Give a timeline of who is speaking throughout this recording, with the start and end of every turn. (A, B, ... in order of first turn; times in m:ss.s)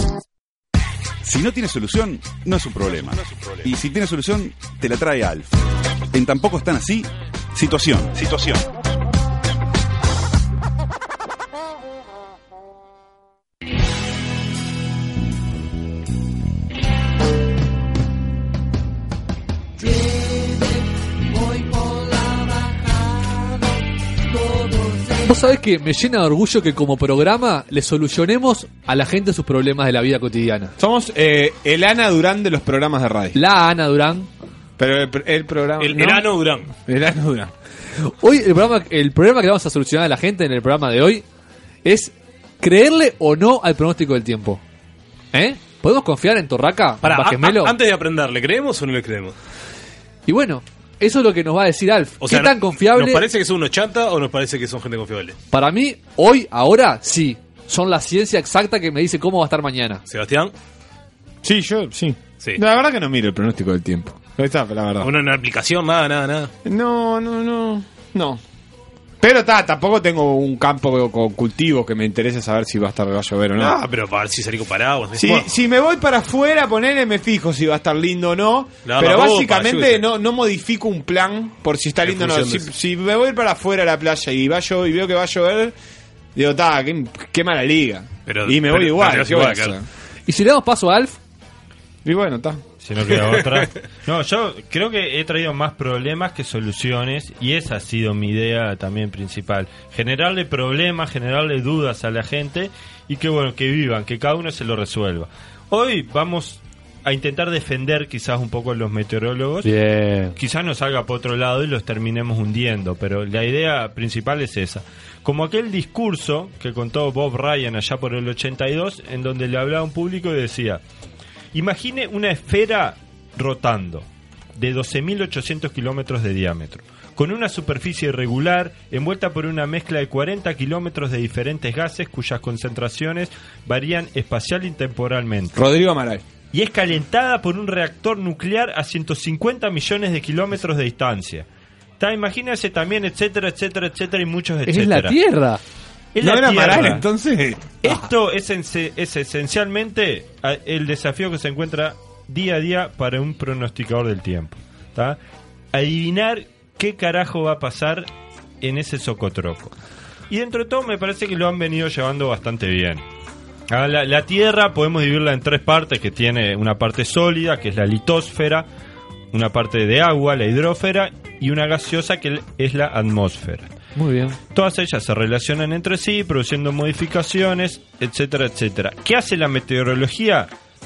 0:01.2-0:05.6 A
0:06.1-0:08.7 A
0:25.0-0:30.7 B
0:30.8-0:33.4 C
0:33.3-0:34.3 B
0:34.8-0:36.3 C
0:35.8-0:36.7 D
0:36.8-0:37.5 C
0:38.1-0:41.2 B
0:41.8-0:44.6 B
0:45.3-0:47.7 B
0:47.0-0:49.3 D
0:50.2-0:53.2 B
0:52.2-0:55.4 D
0:55.5-1:00.0 B
1:00.1-1:00.5 D
1:01.4-1:05.1 C
1:05.0-1:06.5 D
1:06.6-1:08.4 C
1:09.2-1:13.8 C
1:13.6-1:15.5 D
1:15.2-1:25.7 C
1:18.8-1:20.0 D
1:22.0-1:22.7 D
1:26.3-1:29.8 C
1:28.2-1:29.8 D
1:30.2-1:31.2 B
1:32.0-1:32.6 C
1:32.8-1:49.7 E
1:49.6-1:50.3 B
1:50.3-2:00.8 E
2:01.5-2:15.6 E
2:15.5-2:16.2 C
2:16.5-2:21.4 E
2:22.0-2:25.2 E
2:24.6-2:25.6 B
2:26.1-2:27.0 E
2:26.2-2:27.7 C
2:27.8-2:35.2 E
2:35.7-2:38.1 E
2:38.6-2:39.7 E
2:40.3-2:43.0 E
2:43.7-2:48.6 E
2:49.3-2:53.7 E
2:53.9-2:54.4 B
2:54.5-3:00.5 E